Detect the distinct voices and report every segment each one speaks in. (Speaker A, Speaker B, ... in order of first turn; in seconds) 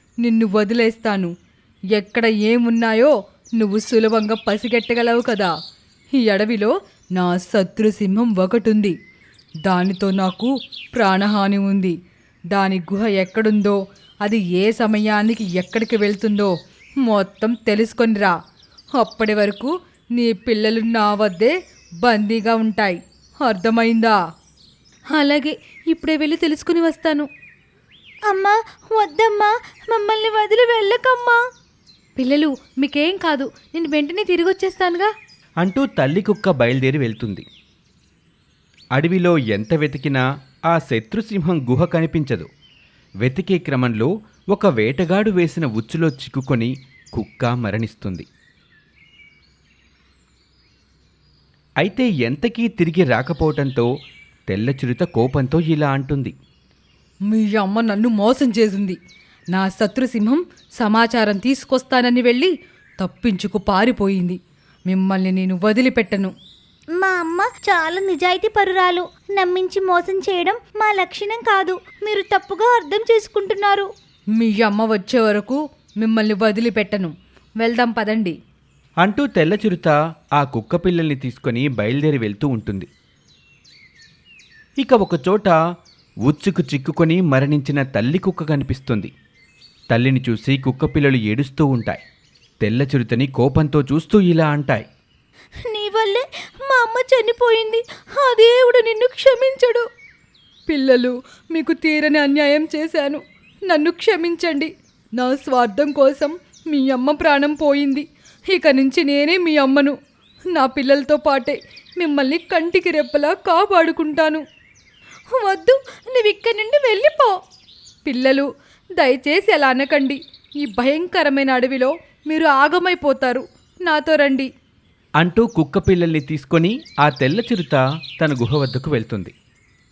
Speaker A: 0.2-1.3, 1.9-5.5, 6.2-8.9, 9.7-11.9, 12.5-18.4, 19.0-24.2, 25.1-27.3, 32.2-35.1, 57.3-59.0, 59.5-64.4, 64.9-66.3, 74.4-78.3, 100.7-110.0, 110.5-114.4, 115.3-117.4, 118.1-118.5, 119.0-124.5
Speaker B: 28.3-31.4, 67.0-73.9, 95.7-99.8
Speaker C: 35.6-37.5, 39.0-42.5, 43.2-48.3, 51.8-53.9, 54.5-56.4, 79.0-82.9, 84.8-85.6, 86.2-89.1, 89.9-92.0, 92.6-94.8, 125.2-129.3